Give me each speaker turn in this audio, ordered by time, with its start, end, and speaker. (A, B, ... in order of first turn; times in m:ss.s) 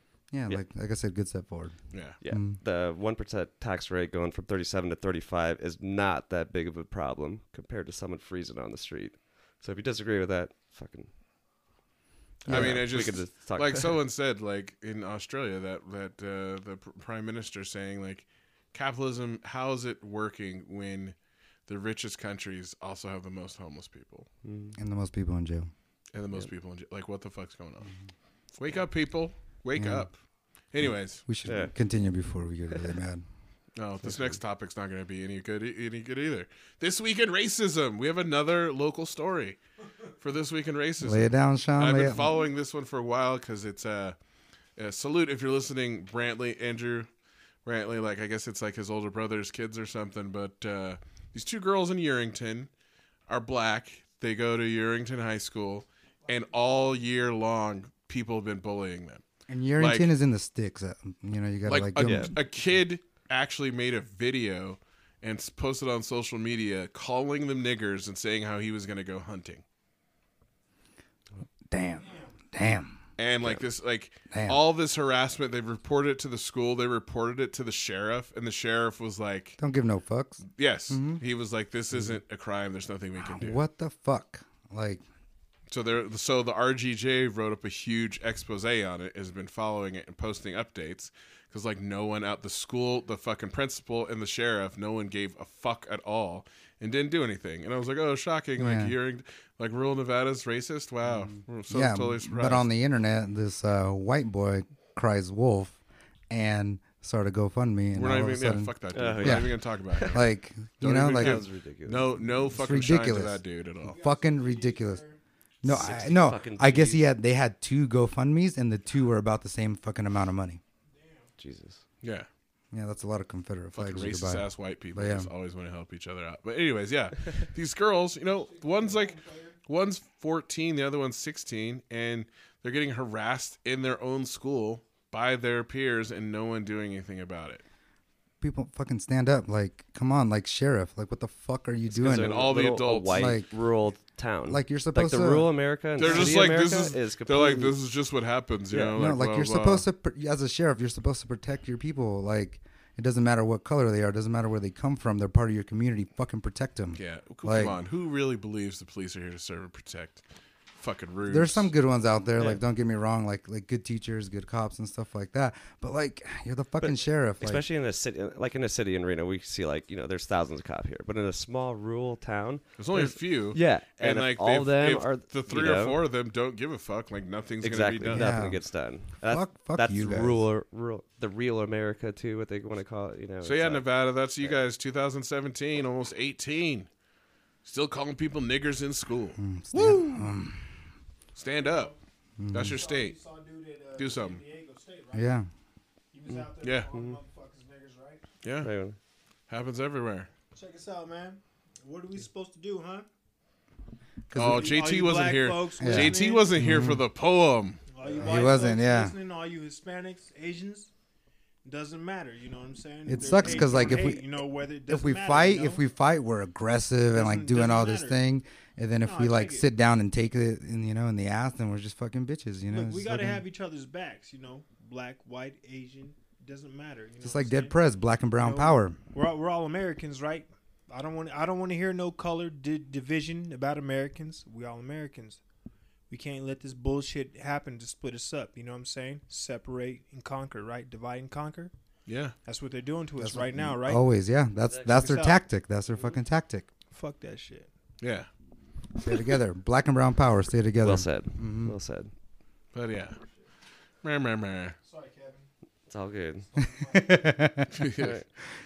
0:00.3-0:02.6 A
0:01.9-0:02.2 B
0:02.2-0:11.1 C
0:12.4-0:14.0 C
0:12.5-0:12.9 A
0:12.5-0:21.2 B
0:21.7-0:24.3 B
0:24.4-0:24.8 C
0:24.8-0:25.7 A
0:26.1-0:27.9 B
0:28.6-0:31.2 B
0:29.8-0:30.1 A
0:30.8-0:33.2 A
0:31.4-0:31.7 C
0:33.8-0:39.6 B
0:40.2-0:44.2 B
0:41.0-0:42.3 A
0:44.8-0:47.1 B
0:47.6-0:52.7 B
0:53.3-0:59.2 B
0:59.5-1:02.4 A
0:59.8-1:00.1 B
1:01.7-1:09.6 B
1:02.0-1:02.3 C
1:11.7-1:13.0 A
1:12.0-1:12.3 D
1:13.2-1:19.6 B
1:14.3-1:14.6 A
1:19.6-1:21.2 A
1:20.6-1:23.6 B
1:21.9-1:22.2 A
1:23.2-1:25.0 A
1:25.7-1:42.7 B
1:38.6-1:38.9 A
1:41.7-1:45.8 A
1:46.3-1:51.4 A
1:47.9-1:50.3 B
1:48.9-1:50.2 C
1:50.8-1:54.0 B
1:51.1-1:52.1 C
1:52.5-1:55.0 A
1:53.8-1:55.2 D
1:55.6-2:00.6 A
1:55.6-1:57.0 C
2:00.9-2:01.3 D
2:01.4-2:01.8 C
2:02.0-2:02.3 B
2:02.7-2:05.3 A
2:03.7-2:17.6 B
2:08.5-2:09.6 D
2:18.4-2:22.5 A
2:21.9-2:27.7 C
2:22.0-2:23.4 B
2:23.1-2:23.5 A
2:24.5-2:26.4 A
2:26.0-2:29.8 B
2:29.0-2:37.8 A
2:37.0-2:40.2 B
2:40.8-2:41.7 B
2:41.3-2:47.6 A
2:47.4-2:56.0 C
2:52.8-2:58.3 B
2:57.6-3:03.9 C
2:58.1-3:00.4 A
3:03.4-3:06.9 B
3:07.6-3:10.0 B
3:09.4-3:10.6 A
3:11.4-3:11.9 B
3:11.6-3:12.0 D
3:12.4-3:12.8 A
3:12.5-3:13.2 B
3:12.6-3:15.4 D
3:14.0-3:14.4 B
3:15.1-3:15.5 A
3:16.1-3:18.2 D
3:16.3-3:17.2 C
3:16.6-3:16.9 B
3:18.4-3:18.7 B
3:18.6-3:19.0 C
3:19.5-3:20.3 B
3:20.5-3:23.1 D
3:24.3-3:24.8 A
3:24.4-3:27.8 B
3:24.4-3:26.5 D
3:25.8-3:27.0 A
3:27.9-3:30.9 D
3:28.1-3:29.2 A
3:31.6-3:35.8 D
3:33.1-3:34.2 A
3:34.9-3:43.4 A
3:37.1-3:38.2 D
3:39.0-3:39.7 D
3:42.7-3:47.8 D
3:47.2-3:49.0 A
3:48.4-3:55.4 D
3:56.1-4:01.7 D
4:02.1-4:02.4 B
4:02.4-4:04.0 D
4:03.2-4:06.7 A
4:04.8-4:05.4 D
4:06.9-4:07.7 D
4:08.0-4:08.3 B
4:09.0-4:11.8 A
4:10.8-4:12.1 C
4:12.7-4:13.2 B
4:14.0-4:14.8 B
4:14.8-4:15.5 D
4:15.9-4:16.5 C
4:16.5-4:17.6 D
4:16.9-4:17.7 A
4:17.8-4:18.2 B
4:18.0-4:18.3 C